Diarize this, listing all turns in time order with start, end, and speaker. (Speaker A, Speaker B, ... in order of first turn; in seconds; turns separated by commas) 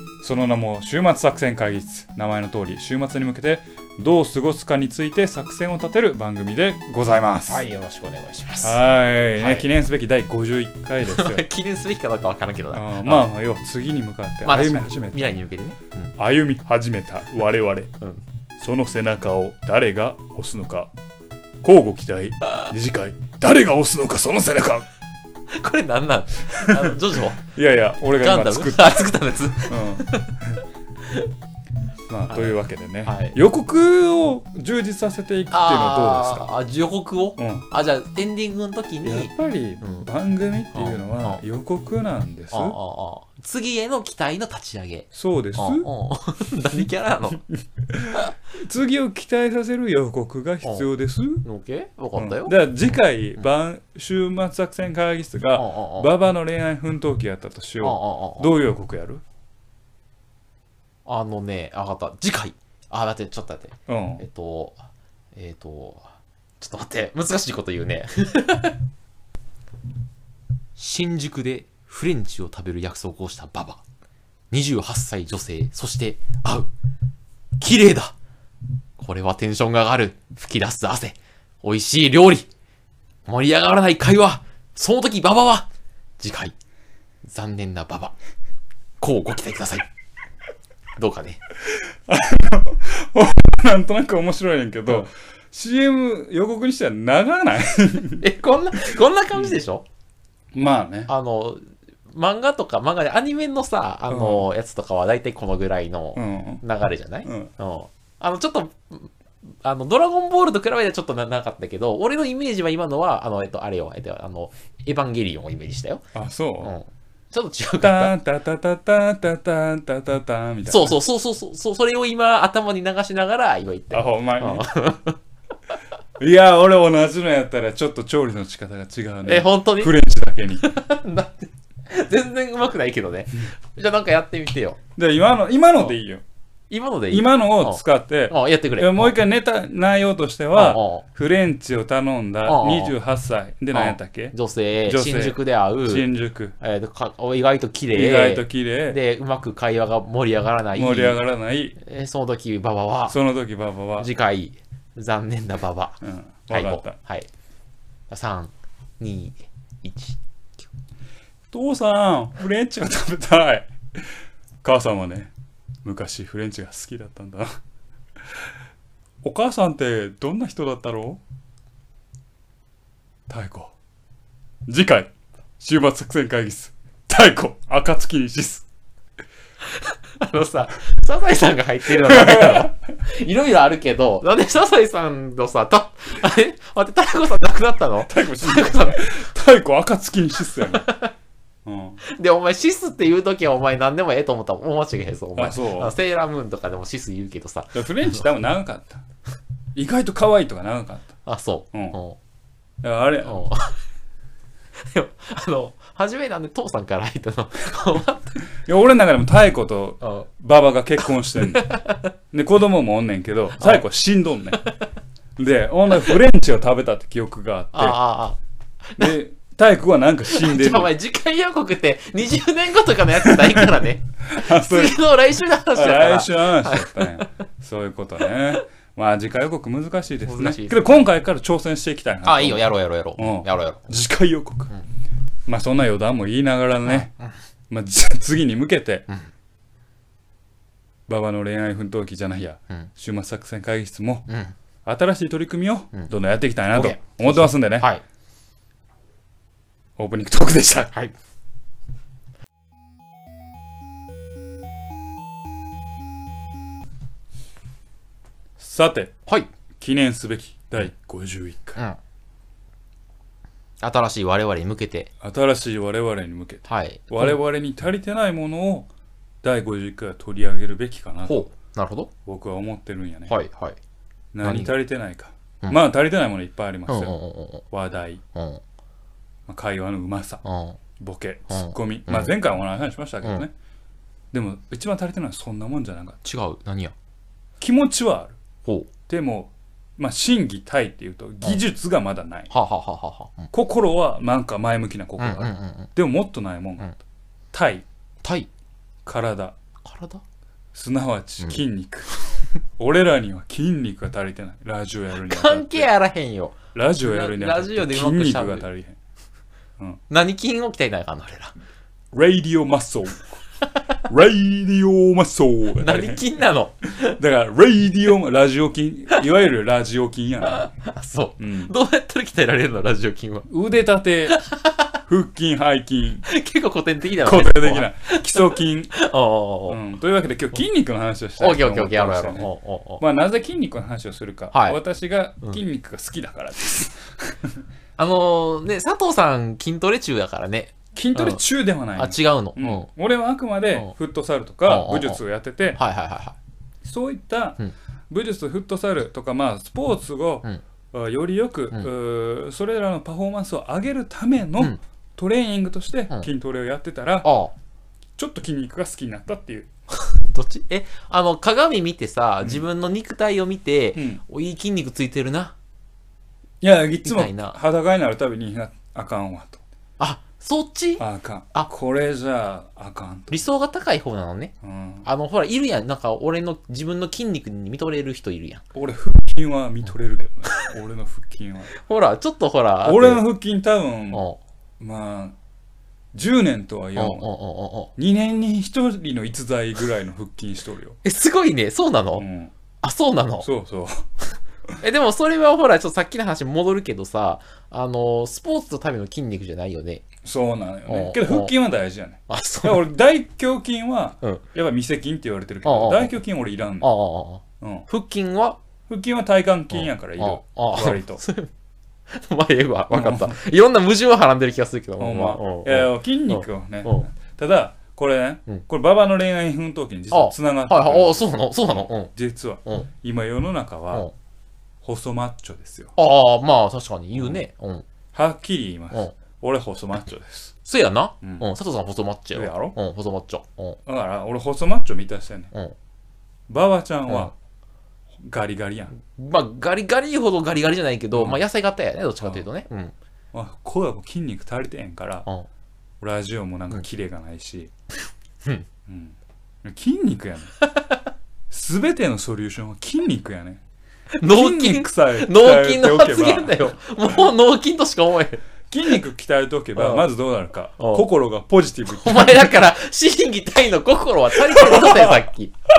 Speaker A: 0.2-7.6, Speaker B: 7.5-8.8, Speaker A: 8.6-11.4, Speaker B: 9.4-9.7, Speaker B: 11.0-13.3, Speaker A: 12.7-15.2, Speaker B: 14.4-16.1, Speaker A: 16.2-17.9, Speaker A: 18.6-20.9, Speaker A: 21.6-24.9, Speaker B: 25.5-27.4, Speaker A: 26.5-26.9, Speaker A: 27.5-29.1, Speaker B: 28.2-30.4, Speaker A: 29.6-30.6, Speaker B: 31.0-31.3, Speaker A: 32.1-36.5, Speaker B: 32.3-33.4, Speaker B: 35.5-40.1, Speaker A: 37.4-37.7, Speaker A: 39.0-42.8, Speaker B: 40.7-41.4, Speaker B: 42.5-47.4, Speaker A: 45.1-45.9, Speaker A: 47.5-51.4, Speaker B: 51.4-52.5, Speaker A: 52.1-59.2, Speaker B: 55.5-56.1, Speaker B: 57.8-58.5, Speaker B: 61.0-64.8, Speaker A: 63.9-64.2, Speaker B: 65.3-66.1, Speaker B: 66.6-68.8, Speaker B: 70.8-73.8, Speaker B: 74.5-76.7, Speaker B: 77.6-78.1, Speaker B: 79.0-82.5, Speaker B: 83.2-85.7, Speaker B: 86.2-86.5, Speaker B: 87.2-88.1, Speaker B: 89.0-89.9, Speaker B: 91.0-91.4, Speaker A: 91.7-98.2, Speaker B: 98.2-99.8, Speaker A: 100.5-101.1, Speaker B: 101.1-116.1, Speaker A: 104.1-104.5, Speaker A: 106.1-106.6, Speaker A: 107.2-107.5, Speaker A: 116.1-116.8, Speaker B: 116.6-118.1, Speaker A: 117.8-121.0, Speaker B: 120.7-125.2, Speaker A: 123.9-124.7, Speaker A: 126.2-130.7, Speaker B: 129.2-130.0, Speaker B: 130.6-134.8, Speaker A: 134.9-136.2, Speaker B: 136.7-139.2, Speaker A: 137.1-144.3, Speaker B: 140.5-141.0, Speaker B: 142.4-142.9, Speaker B: 143.7-146.1, Speaker A: 144.8-146.5, Speaker B: 146.6-151.2, Speaker A: 147.9-149.0, Speaker A: 150.7-151.8, Speaker B: 151.8-153.2, Speaker A: 153.1-154.1, Speaker B: 154.0-156.0, Speaker A: 156.0-157.0, Speaker B: 156.5-157.3, Speaker B: 158.1-160.7, Speaker A: 161.5-164.1, Speaker A: 164.6-165.3, Speaker A: 165.8-167.5, Speaker A: 169.2-171.2, Speaker A: 173.3-173.7, Speaker A: 174.7-178.7, Speaker B: 179.7-189.1, Speaker A: 182.0-182.8, Speaker A: 188.0-190.9, Speaker B: 190.6-191.1, Speaker A: 191.7-192.0, Speaker B: 192.0-198.2, Speaker A: 195.3-195.9, Speaker A: 197.7-199.0, Speaker A: 199.7-201.1, Speaker B: 201.2-202.2, Speaker A: 201.7-202.0, Speaker A: 202.8-203.5, Speaker B: 203.2-203.8, Speaker B: 204.8-208.4, Speaker A: 208.5-211.7, Speaker B: 211.4-212.1, Speaker A: 212.3-214.7, Speaker B: 213.6-213.8, Speaker A: 215.4-218.0, Speaker B: 217.7-218.4, Speaker A: 219.0-220.9, Speaker B: 220.2-227.3, Speaker A: 223.2-225.0, Speaker A: 225.7-234.7, Speaker B: 230.2-231.0, Speaker B: 232.2-234.0, Speaker A: 235.5-237.1, Speaker B: 236.8-237.3, Speaker A: 237.7-239.1, Speaker A: 241.1-244.3, Speaker B: 244.3-244.5, Speaker A: 244.8-247.9, Speaker B: 246.7-248.0, Speaker A: 250.0-250.9, Speaker A: 258.6-259.1, Speaker A: 259.8-261.8, Speaker B: 263.8-265.1, Speaker A: 265.2-268.9, Speaker B: 266.7-267.4, Speaker A: 269.4-271.4, Speaker B: 271.3-272.1, Speaker A: 272.2-273.4, Speaker B: 273.3-273.8, Speaker A: 274.3-277.1, Speaker B: 274.4-274.7, Speaker B: 276.9-277.6, Speaker A: 277.7-278.2, Speaker B: 278.3-278.6, Speaker A: 279.5-280.4, Speaker B: 280.4-280.8, Speaker A: 281.0-283.5, Speaker B: 281.5-282.3, Speaker A: 284.3-286.2, Speaker B: 286.2-286.9, Speaker A: 287.6-288.4, Speaker B: 288.6-288.9, Speaker A: 289.1-292.5, Speaker B: 292.5-293.5, Speaker A: 293.5-297.0, Speaker B: 295.2-295.9, Speaker A: 297.5-297.8, Speaker B: 298.2-298.5, Speaker A: 299.1-299.6, Speaker B: 299.8-300.2, Speaker A: 300.7-305.9, Speaker B: 305.3-308.7, Speaker A: 306.7-309.0, Speaker B: 310.1-311.5, Speaker A: 312.1-313.4, Speaker A: 314.0-316.2, Speaker B: 315.8-317.2, Speaker A: 317.1-320.7, Speaker B: 320.5-323.5, Speaker A: 321.4-321.7, Speaker A: 323.5-324.4, Speaker B: 324.3-324.9, Speaker A: 325.1-326.2, Speaker B: 326.2-329.8, Speaker A: 327.2-328.9, Speaker A: 329.7-332.5, Speaker B: 331.4-333.0, Speaker A: 333.0-337.6, Speaker B: 334.5-334.8, Speaker B: 338.0-341.4, Speaker A: 340.9-345.8, Speaker B: 341.9-342.9, Speaker B: 344.6-345.2, Speaker B: 345.8-346.3, Speaker A: 346.8-347.6, Speaker A: 348.1-357.3, Speaker B: 357.2-357.5, Speaker A: 358.2-359.7, Speaker B: 359.9-365.5, Speaker A: 363.9-364.2, Speaker A: 366.6-369.6, Speaker B: 367.0-367.6, Speaker B: 370.0-371.7, Speaker A: 371.0-373.4, Speaker B: 373.3-378.6, Speaker A: 374.6-375.1, Speaker A: 378.7-381.7, Speaker B: 381.7-383.2, Speaker A: 382.8-384.2, Speaker B: 384.1-384.4, Speaker A: 384.8-385.3, Speaker A: 386.1-387.3, Speaker B: 386.9-387.9, Speaker A: 387.9-391.0, Speaker B: 391.0-392.2, Speaker A: 392.1-392.5, Speaker B: 392.8-393.5, Speaker A: 393.4-394.1, Speaker B: 394.8-400.1, Speaker A: 400.2-406.9, Speaker B: 400.9-401.5, Speaker B: 402.3-402.9, Speaker B: 405.6-406.2, Speaker B: 406.8-408.6, Speaker A: 407.6-407.9, Speaker A: 408.9-411.2, Speaker B: 409.7-411.5, Speaker B: 412.1-417.1, Speaker A: 412.9-413.4, Speaker A: 415.0-424.1, Speaker B: 420.1-422.1, Speaker A: 424.8-425.9, Speaker B: 426.0-427.8, Speaker A: 427.1-427.4, Speaker A: 428.1-430.5, Speaker B: 430.6-433.8, Speaker A: 431.2-431.5, Speaker A: 432.3-432.7, Speaker A: 433.9-435.5, Speaker A: 436.5-437.3, Speaker A: 438.2-438.9, Speaker B: 439.1-442.9, Speaker A: 441.1-441.4, Speaker A: 443.3-445.3, Speaker A: 446.0-447.7, Speaker A: 448.9-450.5, Speaker B: 450.6-451.0, Speaker A: 451.5-453.6, Speaker B: 454.2-458.4, Speaker A: 454.2-456.7, Speaker A: 458.7-462.6, Speaker B: 459.8-460.1, Speaker B: 460.8-461.1, Speaker B: 461.9-465.5, Speaker A: 464.4-465.2